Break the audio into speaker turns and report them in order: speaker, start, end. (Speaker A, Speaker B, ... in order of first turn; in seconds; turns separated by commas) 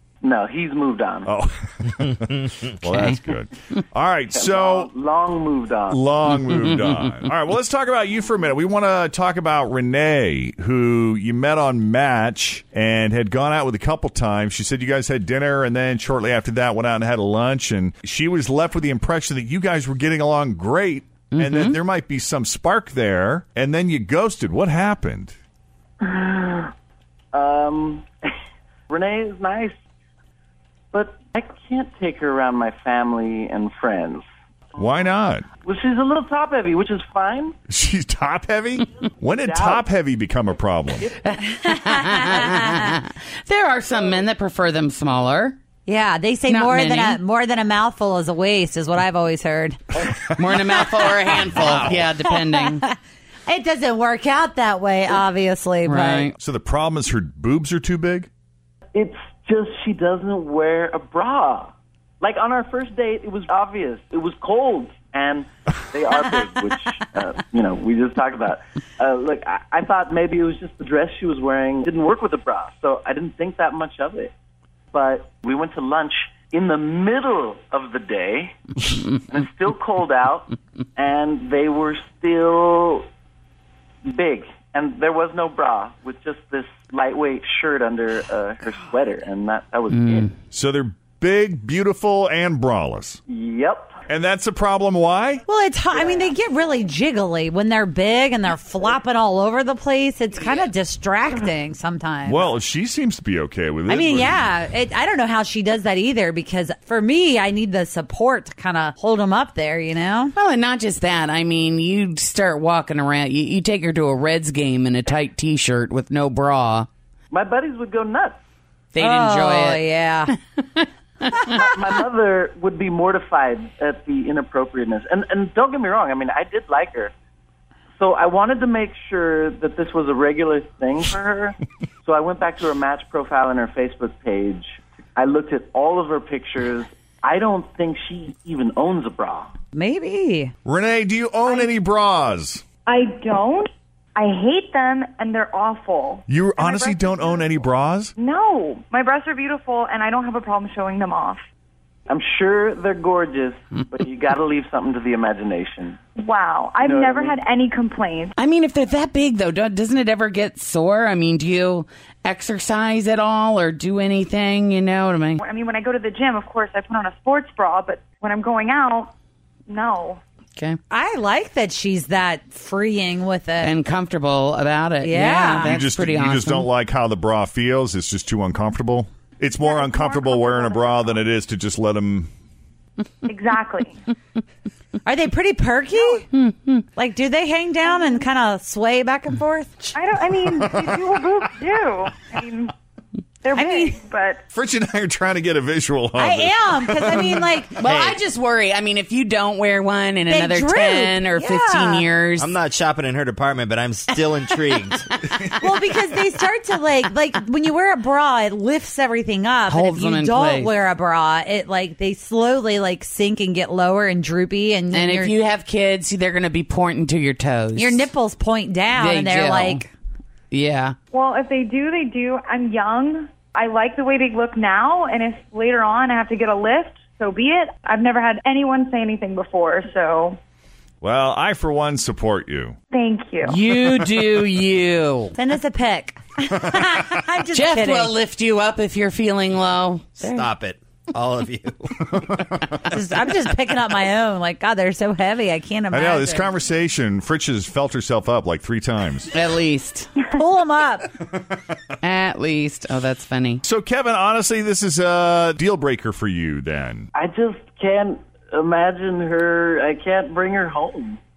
Speaker A: 0.2-1.3, Speaker B: 1.2-4.9, Speaker A: 4.3-6.0, Speaker B: 5.9-25.3, Speaker C: 6.5-7.1, Speaker C: 21.3-21.8, Speaker A: 26.0-26.7, Speaker A: 27.3-28.1, Speaker A: 28.9-29.7, Speaker A: 30.9-34.2, Speaker B: 34.8-35.5, Speaker A: 35.6-37.5, Speaker B: 37.7-41.1, Speaker A: 39.4-39.8, Speaker C: 41.2-45.6, Speaker D: 41.9-42.8, Speaker D: 45.9-50.0, Speaker C: 46.5-47.2, Speaker C: 50.3-52.8, Speaker B: 51.6-52.1, Speaker D: 52.4-52.9, Speaker D: 53.5-56.3, Speaker C: 55.9-56.3, Speaker B: 56.4-58.3, Speaker A: 58.9-74.3, Speaker A: 74.9-78.6, Speaker A: 79.1-83.1, Speaker A: 84.0-90.3, Speaker C: 89.9-90.3, Speaker B: 90.5-93.2, Speaker A: 93.3-94.0, Speaker B: 94.1-95.4, Speaker D: 95.5-102.5, Speaker A: 95.9-96.3, Speaker B: 102.2-104.4, Speaker D: 103.9-110.3, Speaker C: 110.3-116.9, Speaker A: 117.3-118.4, Speaker C: 118.9-119.8, Speaker D: 119.0-120.3, Speaker A: 121.5-127.1, Speaker A: 128.0-139.5, Speaker D: 139.7-140.5, Speaker B: 140.6-142.6, Speaker E: 142.9-147.6, Speaker B: 146.3-148.1, Speaker E: 148.2-151.4, Speaker A: 152.1-156.0, Speaker E: 156.2-158.3, Speaker A: 156.8-157.4, Speaker C: 158.4-165.4, Speaker E: 165.4-169.1, Speaker E: 169.7-170.2, Speaker D: 170.9-173.7, Speaker C: 173.6-176.7, Speaker D: 175.0-175.7, Speaker B: 175.6-182.3, Speaker E: 179.6-181.2, Speaker E: 183.2-184.0, Speaker D: 185.0-186.3, Speaker E: 185.9-186.2, Speaker D: 186.9-189.9, Speaker E: 187.8-188.2, Speaker E: 189.9-192.7, Speaker B: 190.5-191.1, Speaker E: 193.4-194.4, Speaker D: 193.5-194.0, Speaker B: 194.5-197.6, Speaker D: 196.1-197.9, Speaker C: 197.8-202.5, Speaker D: 200.3-202.1, Speaker F: 202.4-205.1, Speaker D: 205.6-215.3, Speaker C: 209.7-210.7, Speaker C: 214.9-218.1, Speaker D: 217.8-219.9, Speaker C: 219.0-219.8, Speaker C: 220.5-220.9, Speaker E: 221.1-230.4, Speaker B: 231.0-232.8, Speaker E: 232.9-233.6, Speaker C: 233.4-235.3, Speaker D: 235.3-238.1, Speaker C: 237.5-240.4, Speaker F: 240.2-242.6, Speaker D: 242.9-246.5, Speaker B: 245.9-249.3, Speaker C: 249.3-250.1, Speaker D: 250.3-251.1, Speaker C: 252.0-253.6, Speaker B: 253.6-257.1, Speaker A: 257.1-261.2